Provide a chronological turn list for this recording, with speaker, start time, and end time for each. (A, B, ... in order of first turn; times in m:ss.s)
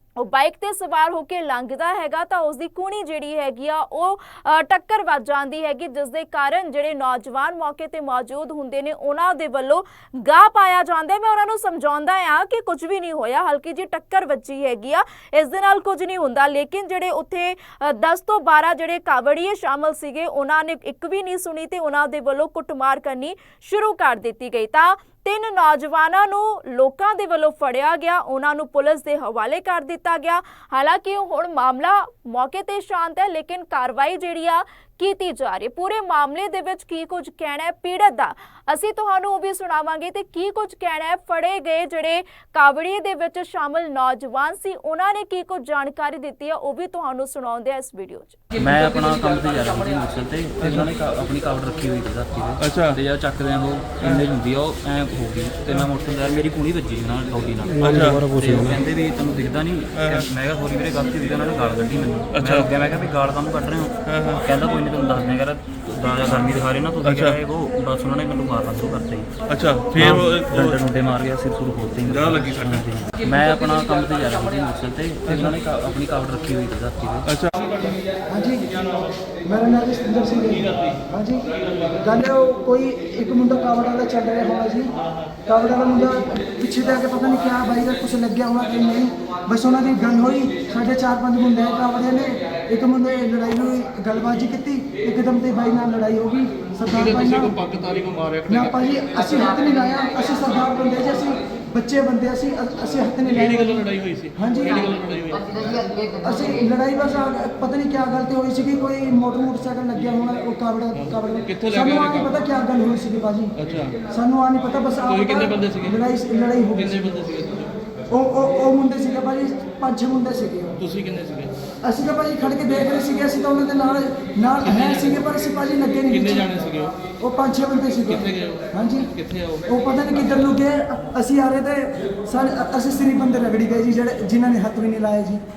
0:00.2-0:48.4 A
0:48.5-1:09.3 B
0:52.6-0:53.0 C
0:57.8-0:58.8 C
1:02.4-1:02.7 C
1:04.1-1:04.4 C
1:07.1-1:07.4 C
1:09.5-1:10.8 C
1:10.0-1:17.3 B
1:12.3-1:12.8 C
1:18.3-1:18.8 D
1:19.4-1:24.9 D
1:25.4-1:37.6 D
1:36.9-1:38.8 C
1:38.5-1:44.8 D
1:43.3-1:46.0 C
1:46.2-1:57.1 D
1:51.0-1:52.4 C
1:53.6-1:54.0 C
1:55.1-1:56.0 C
1:56.8-1:57.8 C
1:58.1-2:00.8 D
2:00.8-2:01.6 C
2:01.8-2:06.5 D
2:04.6-2:05.3 C
2:06.1-2:07.0 C
2:07.2-2:09.1 D
2:08.1-2:09.7 C
2:09.6-2:15.4 D